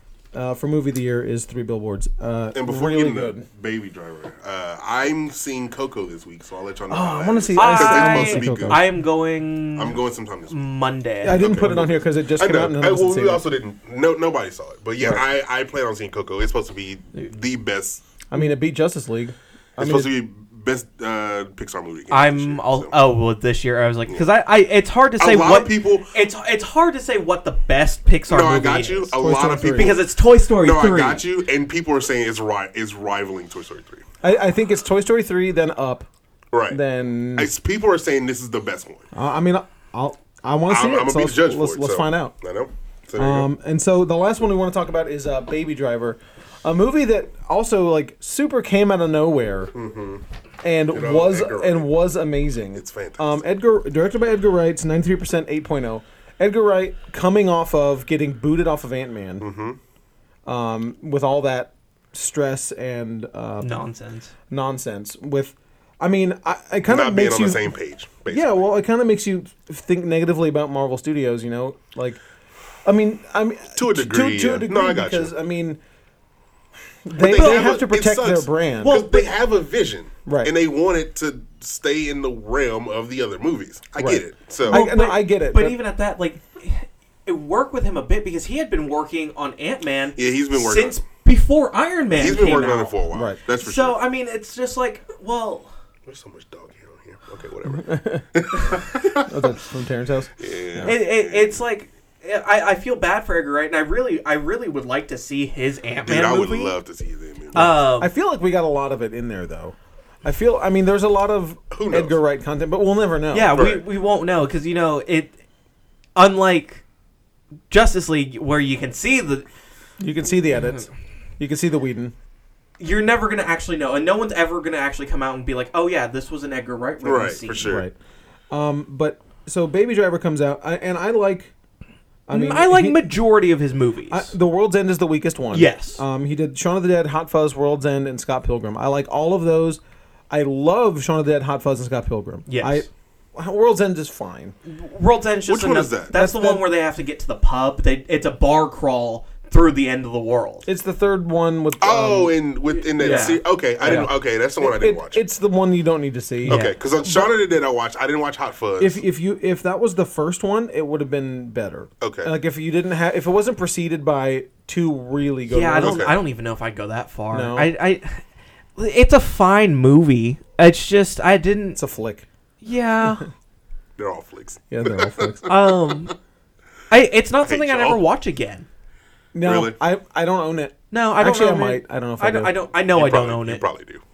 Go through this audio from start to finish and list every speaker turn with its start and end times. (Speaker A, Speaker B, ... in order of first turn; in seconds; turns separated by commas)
Speaker A: 0.3-3.5, Speaker B: 2.5-8.9, Speaker A: 6.9-8.9, Speaker C: 7.5-11.4, Speaker B: 9.7-10.6, Speaker A: 11.2-13.4, Speaker B: 11.3-18.0, Speaker A: 18.3-20.1, Speaker B: 19.8-23.0, Speaker C: 22.1-29.1, Speaker B: 25.2-26.1, Speaker B: 28.3-30.1, Speaker A: 29.1-30.0, Speaker C: 29.7-31.2, Speaker B: 30.6-34.0, Speaker A: 34.2-36.1, Speaker B: 36.5-36.8, Speaker A: 36.7-37.5, Speaker B: 37.4-39.0, Speaker A: 39.1-42.3, Speaker B: 40.7-43.5, Speaker A: 43.2-49.7, Speaker B: 49.7-50.2, Speaker A: 50.6-59.5, Speaker B: 50.9-51.9, Speaker B: 52.7-53.4, Speaker B: 59.4-59.8, Speaker A: 60.5-63.8, Speaker C: 63.6-64.3, Speaker A: 64.5-67.7, Speaker B: 66.9-68.7, Speaker A: 68.3-72.2, Speaker A: 72.8-75.8, Speaker B: 73.8-75.3, Speaker A: 77.0-79.0, Speaker B: 77.2-84.8, Speaker C: 77.2-77.7, Speaker C: 78.8-79.3, Speaker A: 80.2-80.5, Speaker A: 84.0-85.8, Speaker C: 84.7-93.0, Speaker B: 90.2-91.0, Speaker B: 92.2-94.0, Speaker A: 93.1-93.4, Speaker C: 93.5-95.7, Speaker B: 96.1-99.3, Speaker A: 97.7-101.0, Speaker B: 100.4-101.6, Speaker C: 100.8-106.7, Speaker B: 106.0-107.8, Speaker C: 107.5-108.1, Speaker A: 107.5-113.6, Speaker B: 111.7-112.2, Speaker C: 113.3-115.3, Speaker B: 113.5-113.8, Speaker C: 116.2-116.8, Speaker C: 117.7-119.5, Speaker A: 120.0-122.1, Speaker C: 122.8-127.8, Speaker B: 127.0-127.8, Speaker A: 127.6-127.9, Speaker A: 128.5-131.5, Speaker A: 132.3-133.0, Speaker C: 132.3-134.3, Speaker A: 134.1-144.5, Speaker C: 135.5-136.0, Speaker C: 142.5-142.8, Speaker C: 144.7-150.7, Speaker B: 145.5-146.1, Speaker A: 146.1-146.6, Speaker A: 150.7-152.3, Speaker B: 151.8-155.2, Speaker A: 152.9-157.3, Speaker C: 153.0-154.1, Speaker C: 156.4-156.7, Speaker B: 156.5-159.0, Speaker A: 158.8-166.1, Speaker B: 162.0-162.3, Speaker C: 165.5-168.2, Speaker B: 165.8-166.2, Speaker A: 167.3-167.7, Speaker C: 168.8-171.8, Speaker A: 171.8-172.2, Speaker C: 172.6-173.2, Speaker B: 174.0-175.9, Speaker A: 174.7-175.5, Speaker C: 175.4-176.1, Speaker C: 176.9-178.7, Speaker B: 177.4-178.0, Speaker A: 179.3-182.5, Speaker B: 179.4-179.8, Speaker C: 180.9-183.6, Speaker B: 182.9-184.0